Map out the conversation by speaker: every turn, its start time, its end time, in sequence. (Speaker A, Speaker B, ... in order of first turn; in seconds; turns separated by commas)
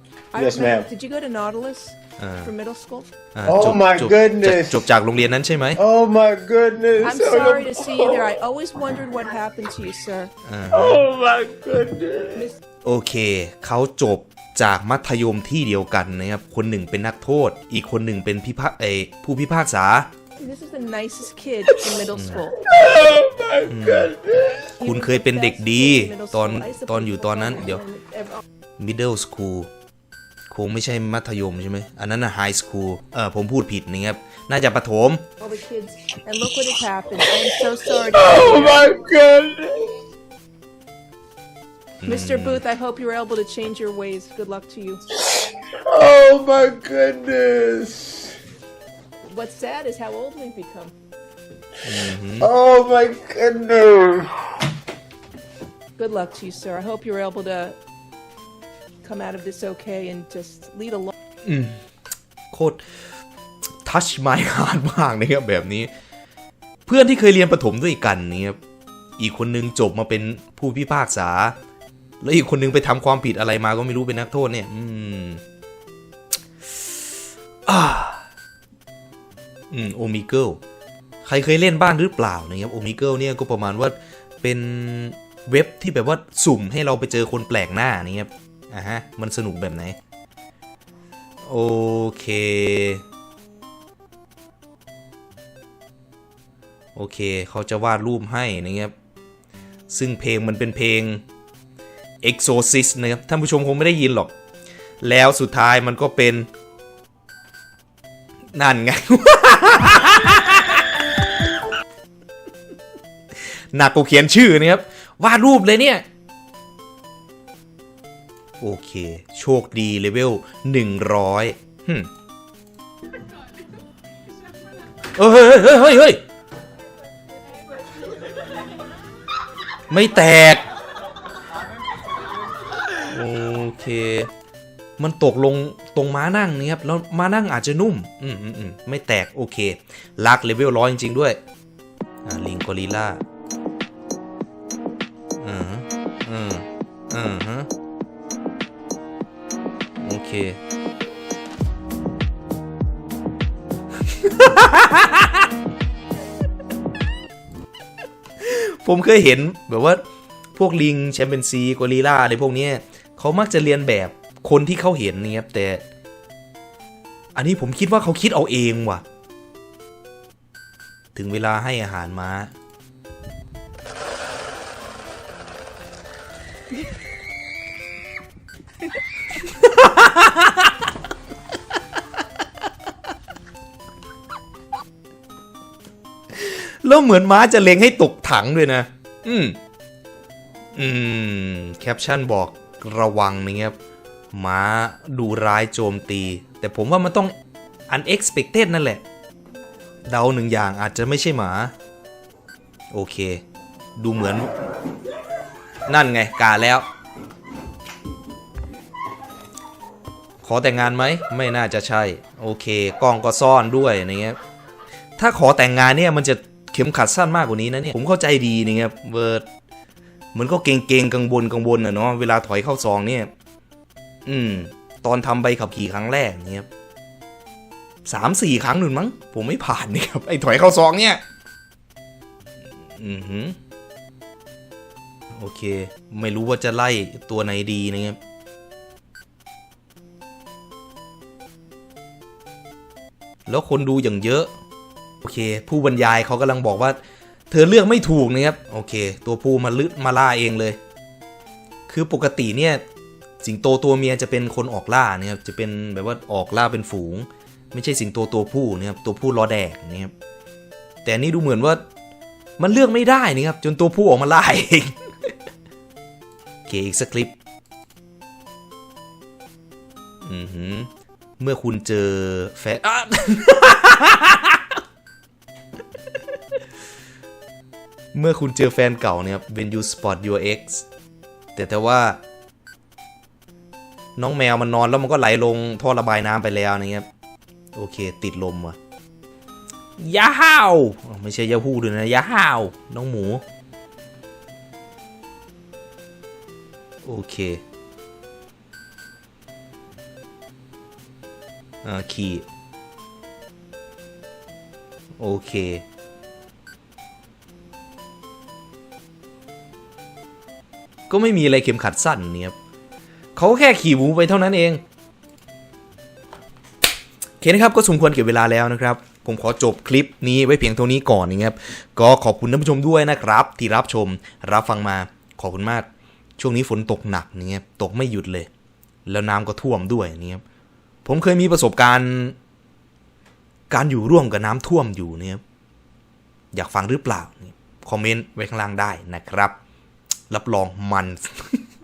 Speaker A: 0.3-3.1, Speaker B: 0.3-0.9, Speaker C: 2.2-2.5, Speaker C: 3.3-5.8, Speaker B: 3.5-4.9, Speaker B: 5.8-8.3, Speaker A: 7.0-10.3, Speaker C: 10.4-11.1, Speaker B: 10.7-12.4, Speaker A: 12.3-12.6, Speaker C: 12.8-20.1, Speaker A: 20.4-22.6, Speaker C: 22.1-22.5, Speaker B: 22.6-24.5, Speaker C: 23.6-24.1, Speaker A: 24.7-28.4, Speaker C: 24.8-27.8, Speaker C: 28.8-29.7, Speaker C: 30.5-35.2, Speaker A: 35.4-38.9, Speaker B: 38.0-39.9, Speaker C: 42.0-42.6, Speaker A: 42.1-45.0, Speaker B: 45.3-48.3, Speaker A: 49.2-51.0, Speaker C: 51.8-52.5, Speaker B: 52.4-54.3, Speaker A: 56.0-57.8, Speaker A: 59.0-61.1, Speaker C: 61.5-61.8, Speaker C: 62.5-63.0, Speaker C: 63.8-65.9, Speaker C: 66.9-68.6, Speaker C: 69.2-71.6, Speaker C: 72.2-75.4, Speaker C: 77.7-78.2, Speaker C: 79.7-80.6, Speaker C: 81.2-90.0, Speaker C: 91.4-93.0, Speaker C: 97.0-98.9, Speaker C: 99.9-101.2, Speaker C: 102.2-104.3, Speaker C: 105.0-106.5, Speaker C: 108.5-110.9, Speaker C: 113.4-116.0, Speaker C: 118.6-122.1, Speaker C: 125.2-126.2, Speaker C: 129.9-130.6, Speaker C: 133.1-134.3, Speaker C: 135.0-141.4, Speaker C: 142.2-143.2, Speaker C: 145.4-147.7, Speaker C: 150.0-150.6, Speaker C: 154.0-155.5, Speaker C: 158.4-160.0, Speaker C: 160.5-165.8, Speaker C: 167.3-169.0, Speaker C: 171.2-172.5, Speaker C: 179.5-180.7, Speaker C: 186.3-189.6, Speaker C: 190.8-193.8, Speaker C: 194.3-197.3, Speaker C: 197.9-199.0, Speaker C: 200.1-201.7, Speaker C: 202.9-203.4, Speaker C: 204.0-204.5, Speaker C: 205.9-206.8, Speaker C: 210.4-214.4, Speaker C: 215.2-219.4, Speaker C: 220.3-223.3, Speaker C: 224.3-226.7, Speaker C: 228.1-231.2, Speaker C: 232.9-233.6, Speaker C: 235.3-238.2, Speaker C: 243.5-244.5, Speaker C: 245.2-250.8, Speaker C: 251.9-252.8, Speaker C: 253.4-260.1, Speaker C: 261.1-261.8, Speaker C: 262.6-265.3, Speaker C: 266.7-267.3, Speaker C: 270.2-274.8, Speaker C: 278.1-280.9, Speaker C: 281.6-282.2, Speaker C: 284.2-287.1, Speaker C: 287.8-288.8, Speaker C: 290.0-293.4, Speaker C: 297.0-297.6, Speaker C: 301.8-302.5, Speaker C: 305.2-305.8, Speaker C: 311.1-312.6, Speaker C: 313.4-314.8, Speaker C: 317.4-325.9, Speaker C: 326.4-328.5, Speaker C: 329.1-330.4, Speaker C: 331.1-332.4, Speaker C: 333.7-335.4, Speaker C: 336.5-339.6, Speaker C: 340.3-341.6